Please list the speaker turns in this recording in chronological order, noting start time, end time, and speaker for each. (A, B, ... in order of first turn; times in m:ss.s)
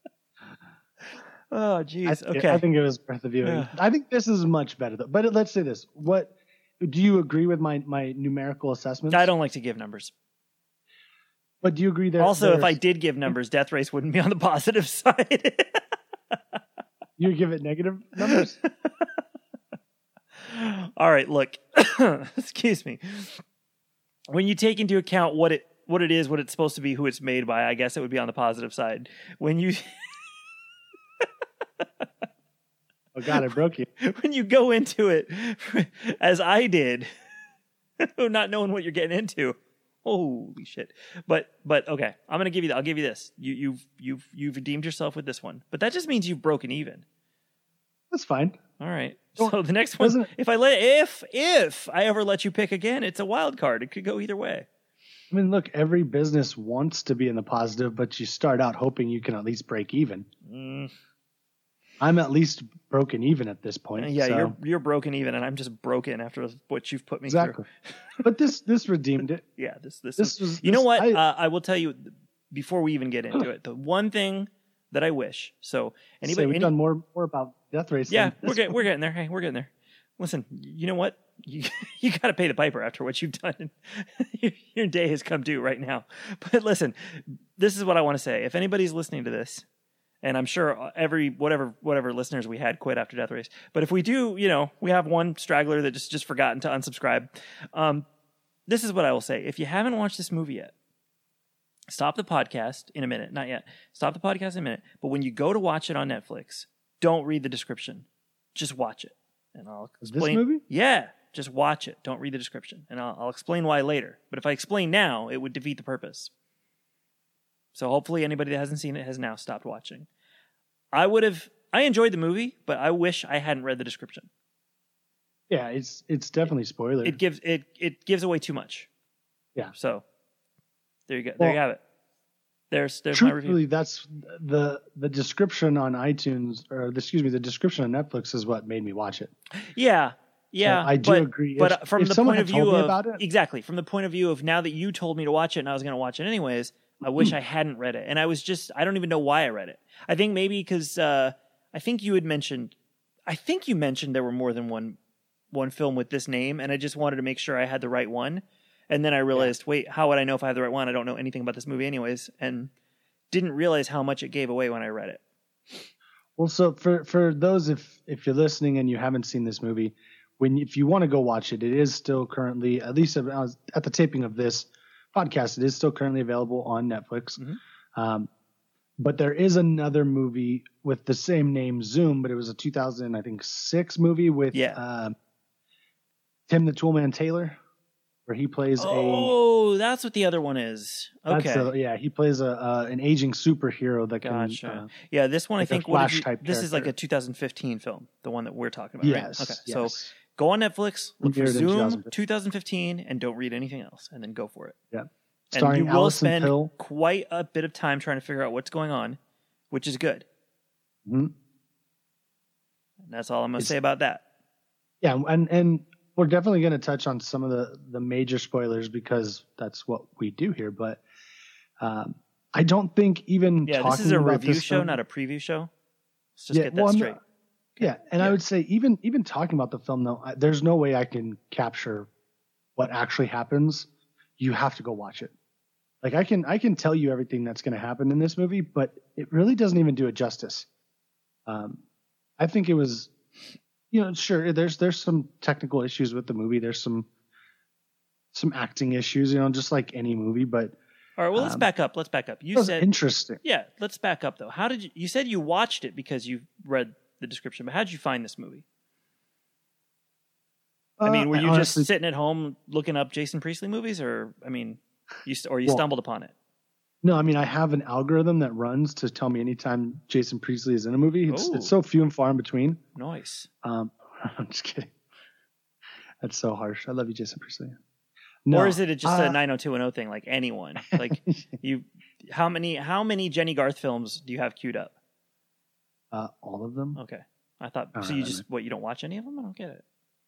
0:01.1-0:02.6 A
0:02.0-0:09.3 B
0:03.4-0:03.8 A
0:09.1-0:10.1 A
0:11.6-0:13.3 B
0:12.2-0:15.8 A
0:17.2-0:18.6 B
0:18.3-0:19.1 A
0:20.4-0:23.4 A
0:24.3-0:30.2 A
0:31.8-0:32.1 A
0:33.1-0:33.9 B
0:34.0-0:37.1 A
0:38.0-0:47.0 A
0:48.1-0:48.6 B
0:48.8-0:54.7 A
0:49.4-0:50.3 B
0:55.3-1:00.3 B
1:00.4-1:00.9 A
1:02.0-1:04.6 B
1:04.0-1:08.2 A
1:07.3-1:07.6 B
1:08.2-1:09.4 B
1:09.6-1:16.7 A
1:10.2-1:11.2 B
1:16.2-1:18.8 B
1:18.1-1:29.6 A
1:30.2-1:38.1 A
1:38.7-1:40.7 A
1:41.9-1:56.3 A
1:50.0-1:50.6 B
1:57.7-2:00.1 A
2:00.9-2:04.3 A
2:05.5-2:07.2 B
2:07.0-2:08.9 A
2:09.7-2:10.0 A
2:11.1-2:11.8 A
2:12.7-2:13.6 A
2:13.1-2:19.3 B
2:19.6-2:32.8 A
2:20.6-2:23.2 B
2:33.3-2:35.0 A
2:35.5-2:42.7 A
2:43.3-2:45.2 A
2:46.4-2:57.4 B
2:58.0-2:58.3 B
2:59.0-3:05.1 B
3:04.5-3:04.8 A
3:06.5-3:07.6 B
3:08.3-3:09.4 B
3:08.8-3:11.7 A
3:11.3-3:14.9 B
3:14.2-3:24.8 A
3:15.6-3:16.9 B
3:19.0-3:20.1 B
3:21.2-3:22.1 B
3:24.9-3:26.7 B
3:25.5-3:29.2 A
3:29.7-3:30.3 A
3:31.0-3:31.3 B
3:33.1-3:34.2 A
3:35.0-3:41.0 B
3:41.8-3:45.0 B
3:43.6-3:45.7 A
3:46.4-3:47.2 A
3:46.5-3:47.2 B
3:47.8-3:48.4 A
3:47.8-3:52.1 B
3:52.8-3:55.3 B
3:56.0-4:00.7 B
4:01.5-4:01.8 B
4:02.4-4:03.1 B
4:03.9-4:07.1 B
4:08.3-4:10.8 B
4:11.2-4:12.9 A
4:11.4-4:11.7 B
4:12.6-4:13.4 B
4:13.4-4:18.6 A
4:21.0-4:21.9 B
4:21.0-4:26.3 A
4:27.0-4:32.8 B
4:31.3-4:31.7 A
4:33.0-4:33.5 A
4:33.6-4:34.9 B
4:36.2-4:37.8 B
4:38.5-4:39.4 B
4:38.5-4:44.9 A
4:40.9-4:41.6 B
4:46.1-4:47.0 B
4:47.0-4:49.8 A
4:48.0-4:48.4 B